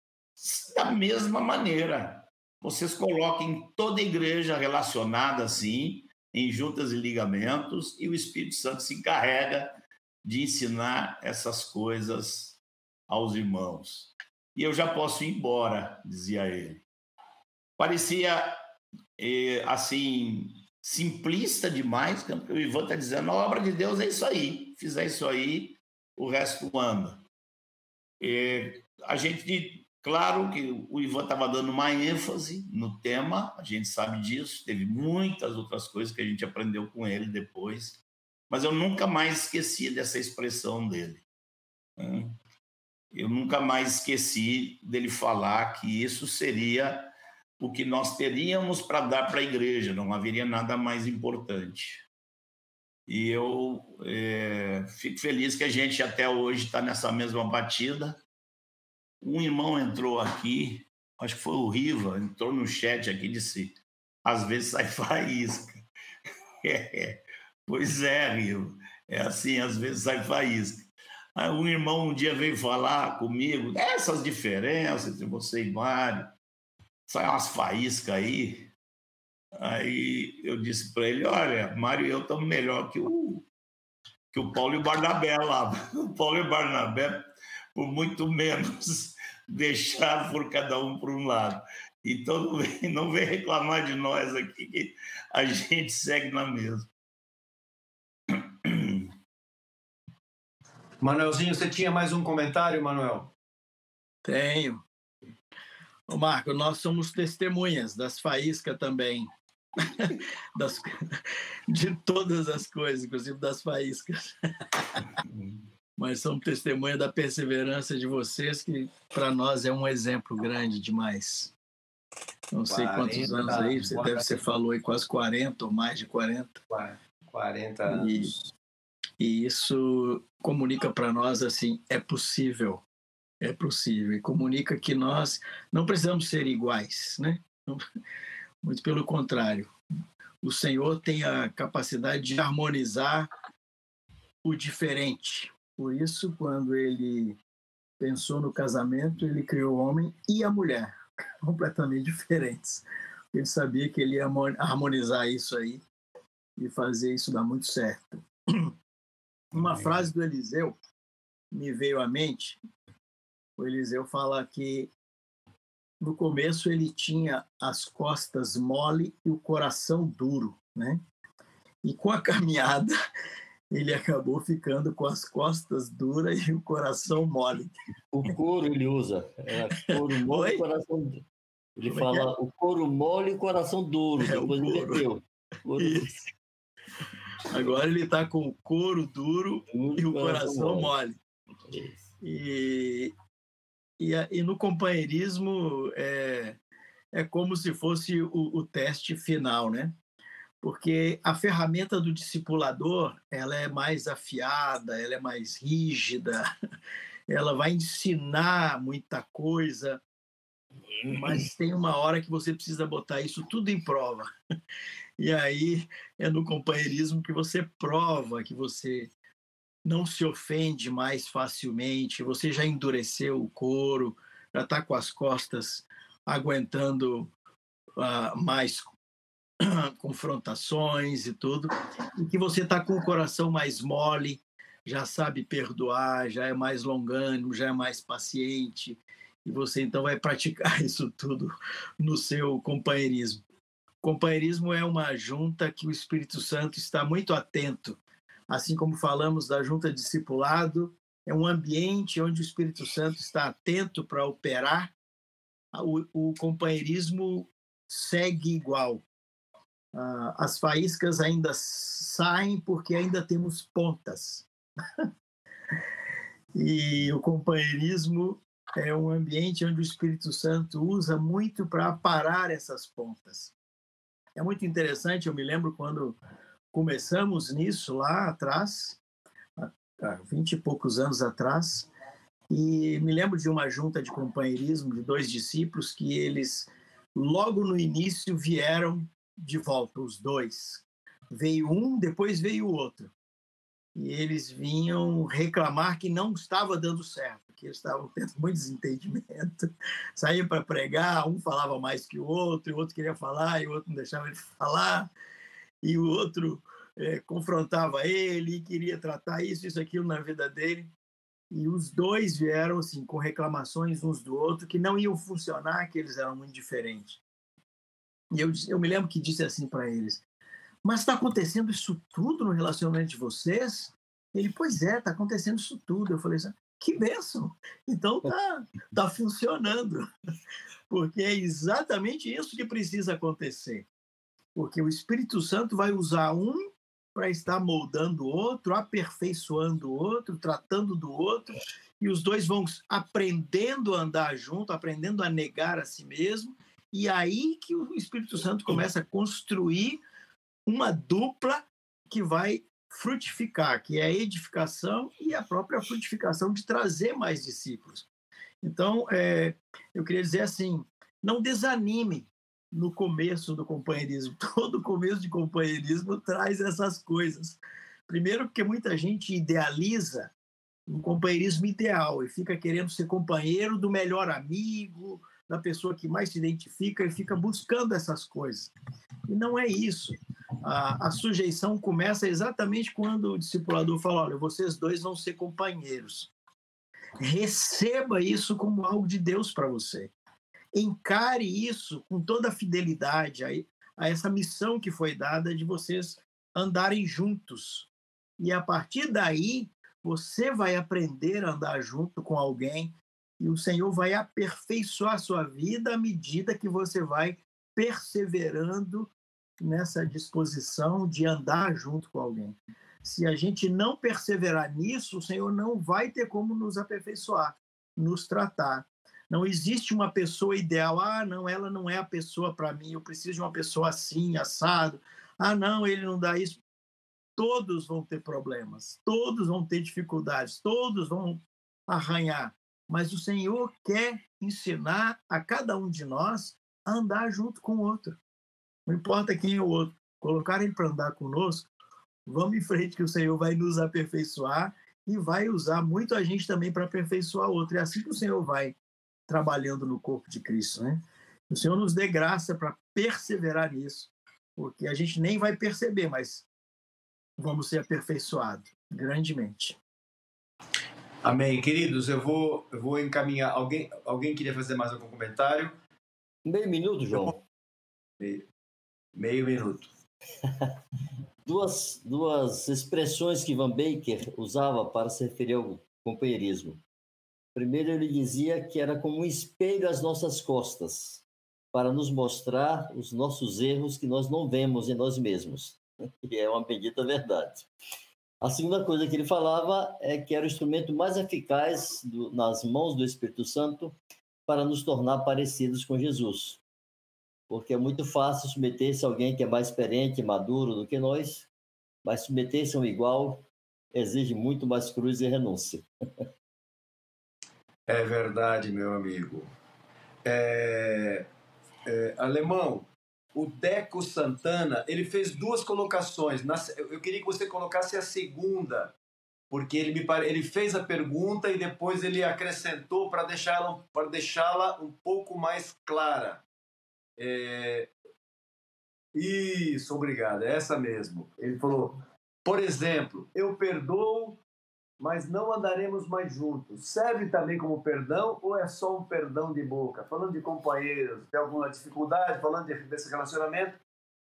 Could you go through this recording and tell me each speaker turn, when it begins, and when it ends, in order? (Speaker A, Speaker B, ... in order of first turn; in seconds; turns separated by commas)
Speaker A: 0.4-16.8, Speaker A: 17.8-18.6, Speaker A: 19.2-27.2, Speaker A: 28.2-41.2, Speaker A: 42.0-42.4, Speaker A: 43.1-52.0, Speaker A: 53.1-58.2, Speaker A: 59.2-65.8, Speaker A: 66.6-76.3, Speaker A: 77.1-78.7, Speaker A: 79.6-83.4, Speaker A: 84.3-96.9, Speaker A: 98.3-99.1, Speaker B: 101.0-103.3, Speaker C: 104.2-104.8, Speaker C: 106.1-109.3, Speaker C: 109.8-115.0, Speaker A: 115.3-115.7, Speaker C: 116.0-121.5, Speaker C: 122.5-126.6, Speaker B: 122.7-124.4, Speaker B: 126.7-128.5, Speaker C: 127.9-128.3, Speaker C: 129.2-132.8, Speaker C: 133.4-137.8, Speaker C: 138.6-139.7, Speaker C: 140.4-143.3, Speaker C: 144.4-147.4, Speaker C: 148.0-155.8, Speaker C: 156.6-158.7, Speaker C: 159.5-160.8, Speaker A: 159.6-160.1, Speaker C: 161.5-162.6, Speaker C: 163.6-164.9, Speaker C: 166.0-171.0, Speaker C: 171.8-172.9, Speaker C: 173.7-177.8, Speaker D: 178.1-181.2, Speaker C: 179.7-180.6, Speaker D: 181.8-186.2, Speaker C: 181.9-182.3, Speaker C: 184.2-185.0, Speaker C: 185.8-186.1, Speaker C: 187.5-191.2, Speaker D: 189.7-190.9, Speaker D: 191.7-192.1, Speaker C: 192.2-193.1, Speaker C: 194.0-196.6, Speaker C: 197.1-199.9, Speaker C: 200.6-206.5, Speaker C: 207.3-210.0, Speaker C: 211.1-214.3, Speaker C: 215.2-219.1, Speaker C: 219.8-227.3, Speaker C: 228.0-228.9, Speaker C: 229.6-243.4, Speaker C: 244.0-254.9, Speaker C: 255.7-259.0, Speaker C: 259.9-264.5, Speaker C: 266.5-273.5, Speaker C: 274.4-276.2, Speaker C: 276.7-279.0, Speaker C: 279.6-281.9, Speaker C: 282.5-293.1, Speaker C: 293.9-305.1, Speaker C: 305.8-310.9, Speaker C: 311.5-317.2, Speaker C: 318.3-320.2, Speaker C: 320.8-330.1, Speaker C: 330.9-333.9, Speaker C: 334.5-350.0, Speaker C: 350.7-358.1, Speaker C: 358.6-370.3, Speaker C: 370.9-378.7, Speaker C: 379.3-386.3, Speaker C: 387.2-390.1, Speaker C: 390.7-426.6, Speaker C: 427.4-438.2, Speaker C: 438.9-441.7, Speaker C: 442.3-448.8, Speaker C: 449.3-456.5, Speaker C: 457.4-459.8, Speaker B: 461.2-465.7, Speaker D: 466.4-467.4, Speaker B: 468.2-468.4, Speaker B: 469.1-469.9, Speaker D: 471.4-476.8, Speaker D: 477.5-487.7, Speaker D: 488.4-493.9, Speaker D: 494.5-496.6, Speaker D: 497.5-501.5, Speaker D: 502.0-505.8, Speaker B: 507.9-509.5, Speaker B: 510.2-511.3, Speaker B: 511.8-518.9, Speaker B: 519.5-526.4, Speaker B: 527.2-527.9, Speaker B: 529.1-534.4, Speaker B: 535.0-543.8